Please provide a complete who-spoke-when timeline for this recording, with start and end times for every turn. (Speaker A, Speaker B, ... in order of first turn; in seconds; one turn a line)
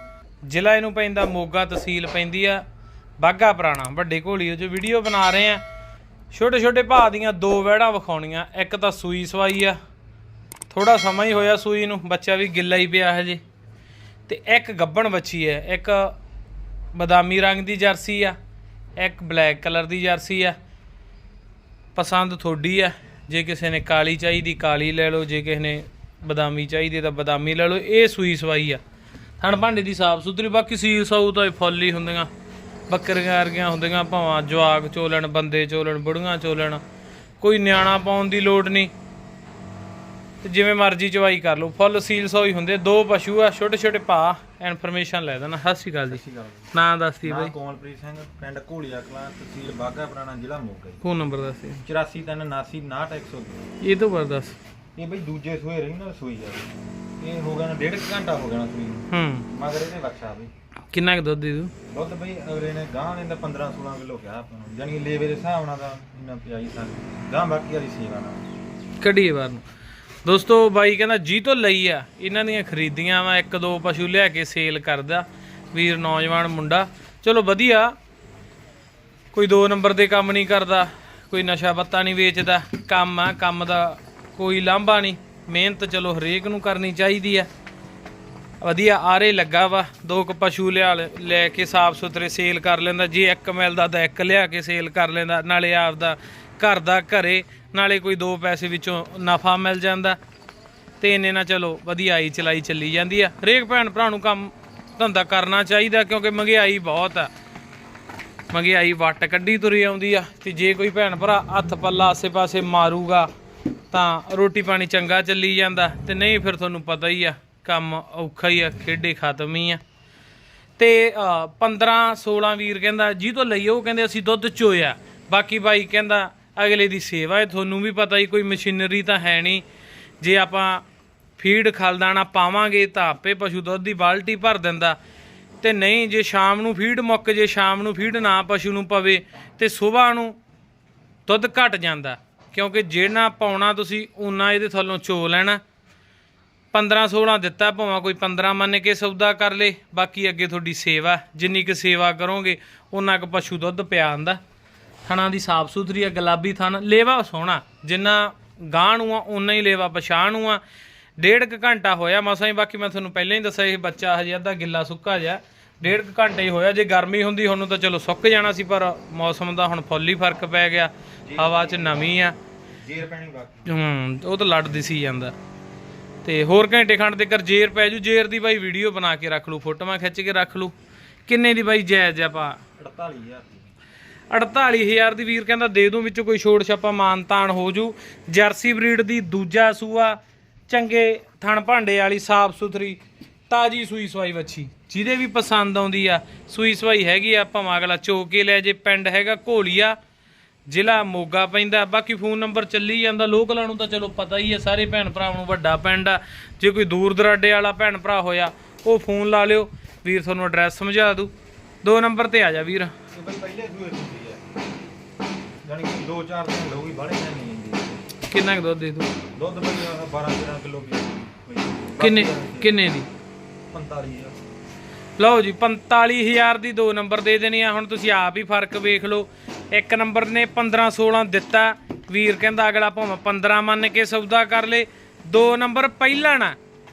Speaker A: 0.5-2.6
Speaker A: 3.2-5.6
Speaker A: 6.3-9.8
Speaker A: 10.7-13.4
Speaker A: 14.3-16.1
Speaker A: 16.9-18.4
Speaker A: 19.0-20.6
Speaker A: 21.9-28.8
Speaker A: 29.4-32.3
Speaker A: 32.9-36.8
Speaker A: 37.4-38.9
Speaker A: 40.4-46.2
Speaker B: 46.1-46.7
Speaker A: 46.7-47.5
Speaker B: 47.2-51.0
Speaker A: 51.0-51.8
Speaker B: 51.8-53.7
Speaker A: 53.8-54.6
Speaker B: 55.0-60.5
Speaker A: 59.1-59.5
Speaker A: 60.9-61.7
Speaker B: 61.9-68.5
Speaker A: 69.0-69.6
Speaker A: 70.2-77.9
Speaker A: 79.3-87.5
Speaker A: 88.6-100.2
Speaker A: 101.0-107.3
Speaker A: 108.5-113.3
Speaker A: 113.9-119.8
Speaker A: 120.8-129.6
Speaker A: 130.2-130.8
Speaker A: 131.4-135.0
Speaker A: 135.6-140.3
Speaker A: 141.2-145.6
Speaker A: 146.7-154.4
Speaker A: 155.1-160.6
Speaker A: 161.2-172.3
Speaker B: 171.2-172.1
Speaker B: 172.8-173.7
Speaker A: 173.7-175.3
Speaker A: 176.2-180.7
Speaker A: 181.3-182.6
Speaker B: 182.8-183.7
Speaker A: 184.3-200.0
Speaker A: 200.7-211.3
Speaker A: 211.8-212.9
Speaker B: 213.1-214.4
Speaker B: 215.6-218.0
Speaker A: 218.3-219.1
Speaker B: 219.3-222.8
Speaker A: 222.0-223.1
Speaker B: 223.7-224.4
Speaker A: 225.2-236.6